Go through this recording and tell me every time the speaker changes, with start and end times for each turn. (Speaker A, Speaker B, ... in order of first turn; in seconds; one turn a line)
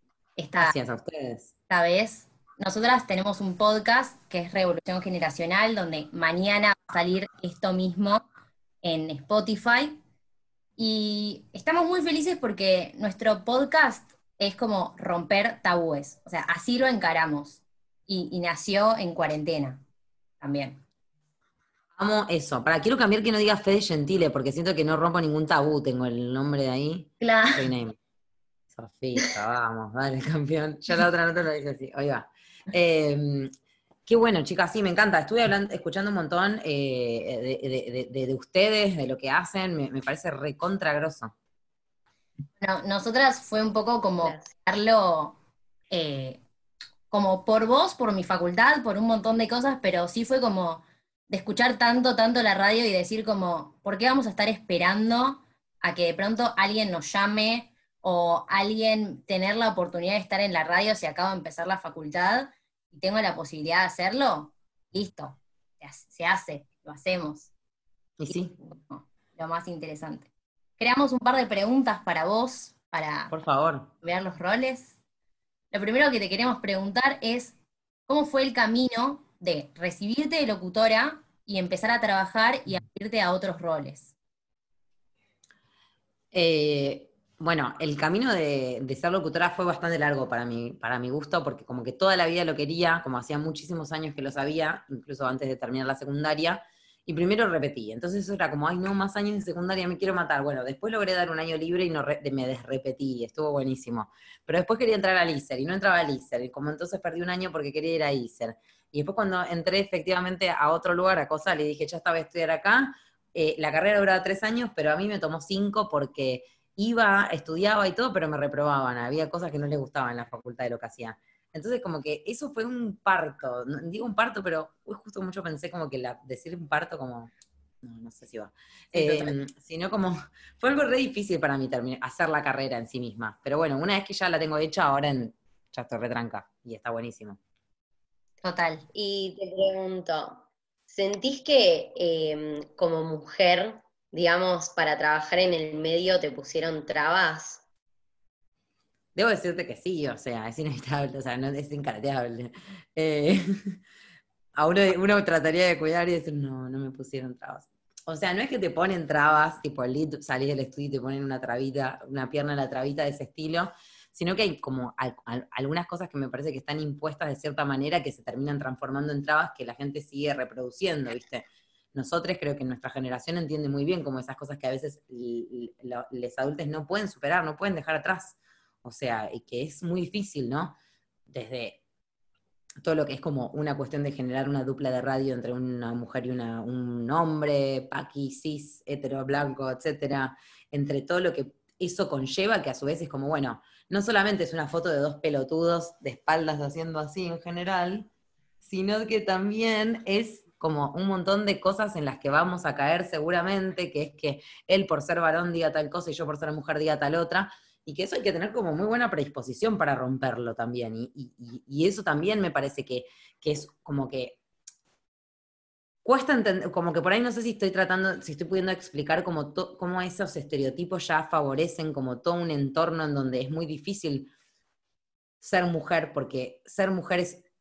Speaker A: 0.4-0.7
Speaker B: 0.6-1.5
Speaker A: 1.7-8.2
Speaker A: 8.8-10.0
Speaker A: 10.8-19.8
Speaker A: 20.4-20.8
Speaker B: 21.9-28.0
Speaker A: 27.2-27.7
Speaker B: 28.7-33.5
Speaker B: 34.1-41.3
Speaker A: 42.6-45.3
Speaker C: 44.2-44.5
Speaker A: 45.9-46.4
Speaker A: 47.1-67.5
Speaker B: 68.2-68.5
Speaker A: 68.3-73.3
Speaker B: 73.3-73.9
Speaker A: 74.0-75.0
Speaker A: 75.7-84.1
Speaker B: 86.3-127.3
Speaker B: 127.8-137.4
Speaker A: 128.9-129.3
Speaker A: 138.4-138.8
Speaker C: 138.9-147.6
Speaker B: 149.1-153.8
Speaker B: 154.6-180.8
Speaker B: 181.3-181.8
Speaker B: 182.8-198.1
Speaker B: 198.6-214.4
Speaker B: 216.0-224.3
Speaker B: 225.4-227.4